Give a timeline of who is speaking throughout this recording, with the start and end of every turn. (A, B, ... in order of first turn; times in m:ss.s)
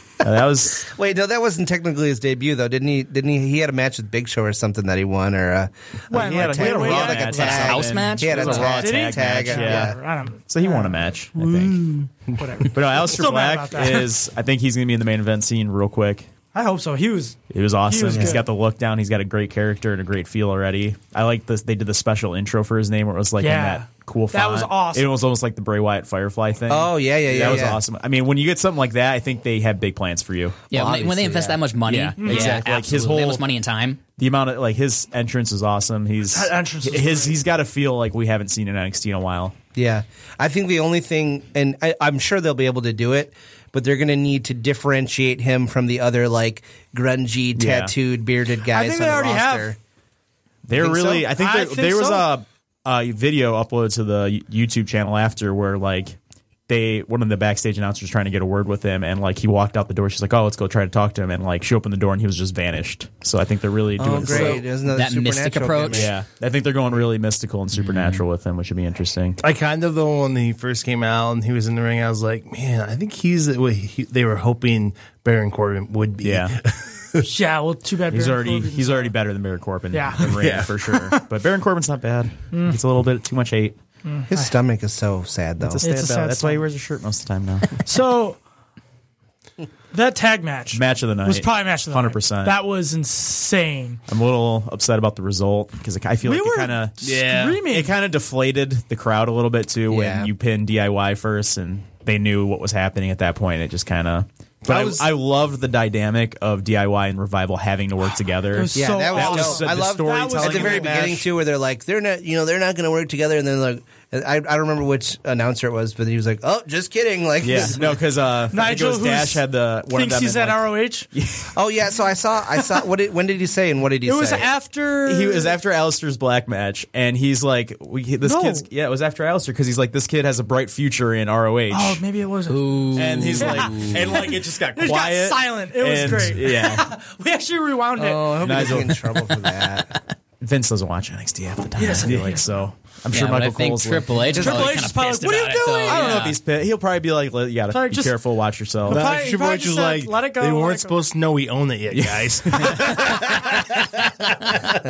0:00.2-0:00.9 A
0:00.8-0:10.0 B
0:06.1-0:07.6 C
0:06.1-0:10.0 A
0:07.2-0:08.7 D
0:08.6-0:11.1 C
0:10.5-0:11.8 A
0:12.4-0:14.1 C
0:12.7-0:16.3 A
0:16.5-0:18.5 C
0:17.5-0:30.6 A
0:23.4-0:25.1 C
0:26.7-0:27.8 B
0:30.7-0:31.6 B
0:30.7-0:34.0 D
0:31.9-0:33.5 A
0:32.2-0:32.6 C
0:34.2-0:39.6 A
0:36.3-0:37.4 C
0:39.8-0:49.8 B
0:47.6-0:47.9 A
0:48.6-0:49.7 C
0:50.7-0:56.2 A
0:50.8-0:51.2 B
0:51.2-0:52.3 C
0:56.7-1:04.6 A
1:04.0-1:06.1 B
1:04.3-1:06.1 D
1:05.9-1:09.4 A
1:09.4-1:17.3 E
1:16.2-1:16.6 A
1:17.2-1:19.1 C
1:18.1-1:23.8 A
1:19.9-1:20.3 C
1:20.2-1:20.7 E
1:22.5-1:22.8 C
1:24.0-1:24.5 C
1:24.3-1:25.8 B
1:25.6-1:27.8 A
1:25.8-1:26.6 C
1:27.8-1:28.4 C
1:29.9-1:34.0 C
1:30.7-1:32.6 A
1:34.1-1:51.3 A
1:36.2-1:37.9 C
1:37.0-1:37.6 E
1:39.9-1:40.3 B
1:44.6-1:45.1 E
1:48.5-1:50.9 C
1:48.8-1:58.0 B
1:57.4-2:01.5 A
1:58.5-2:01.1 C
2:01.5-2:04.5 B
2:04.0-2:05.6 C
2:05.1-2:12.0 A
2:08.2-2:08.7 C
2:11.7-2:18.6 C
2:12.5-2:14.1 D
2:13.0-2:16.9 A
2:18.0-2:20.0 B
2:18.4-2:19.2 A
2:20.4-2:24.7 A
2:21.8-2:22.5 C
2:22.1-2:22.4 E
2:23.1-2:26.4 D
2:24.3-2:26.3 C
2:25.9-2:29.1 A
2:27.7-2:28.2 C
2:28.9-2:31.0 C
2:28.9-2:34.8 E
2:31.9-2:33.4 A